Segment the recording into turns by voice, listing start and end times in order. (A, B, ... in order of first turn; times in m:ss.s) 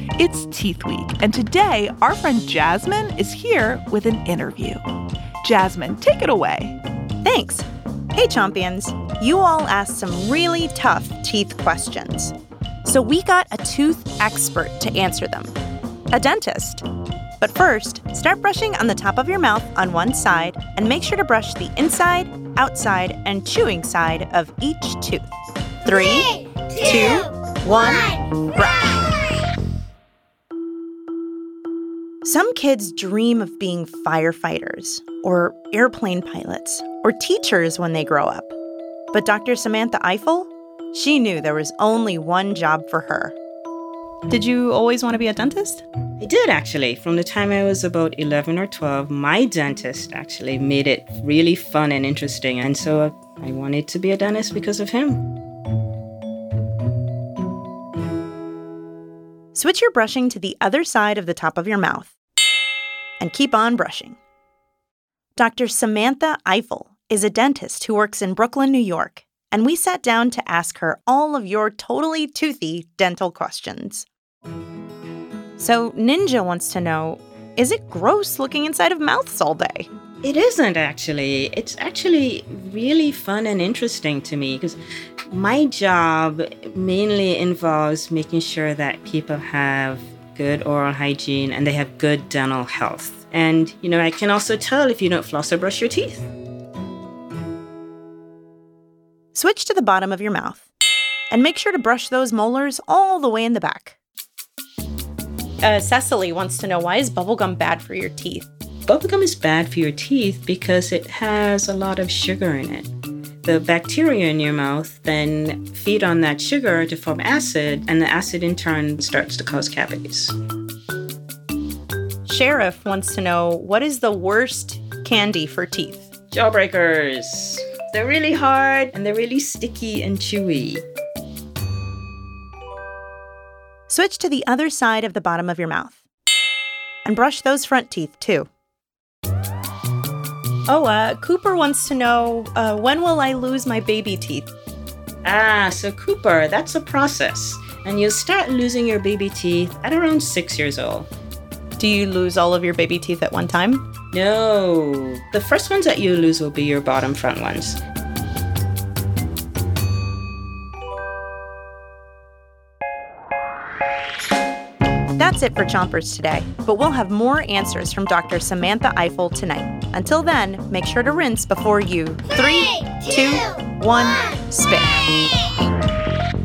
0:00.2-0:04.8 A
0:05.4-0:06.8 A
0:07.2-0:15.5 B
0:16.1-0:16.8 B
0:17.4-0:25.3 B
0:25.8-0:29.1 B
0:32.2-0:38.5 B
0:39.1-0:43.4 B
0:44.3-0:45.8 B
0:46.2-0:55.2 C
0:59.5-1:02.1 B
1:03.2-1:04.2 B
1:05.4-1:14.1 B
1:15.6-1:19.9 B
1:20.2-1:36.2 C
1:39.3-1:40.7 B
1:41.3-1:44.0 B
1:45.6-1:48.5 B
1:48.9-1:52.9 C
1:53.4-2:00.3 C
2:02.2-2:06.0 B
2:06.3-2:10.8 C
2:13.9-2:16.0 B
2:17.0-2:18.5 B
2:20.7-2:24.5 B
2:25.2-2:31.1 C
2:31.8-2:33.9 B
2:34.1-2:37.8 C
2:45.2-2:55.0 B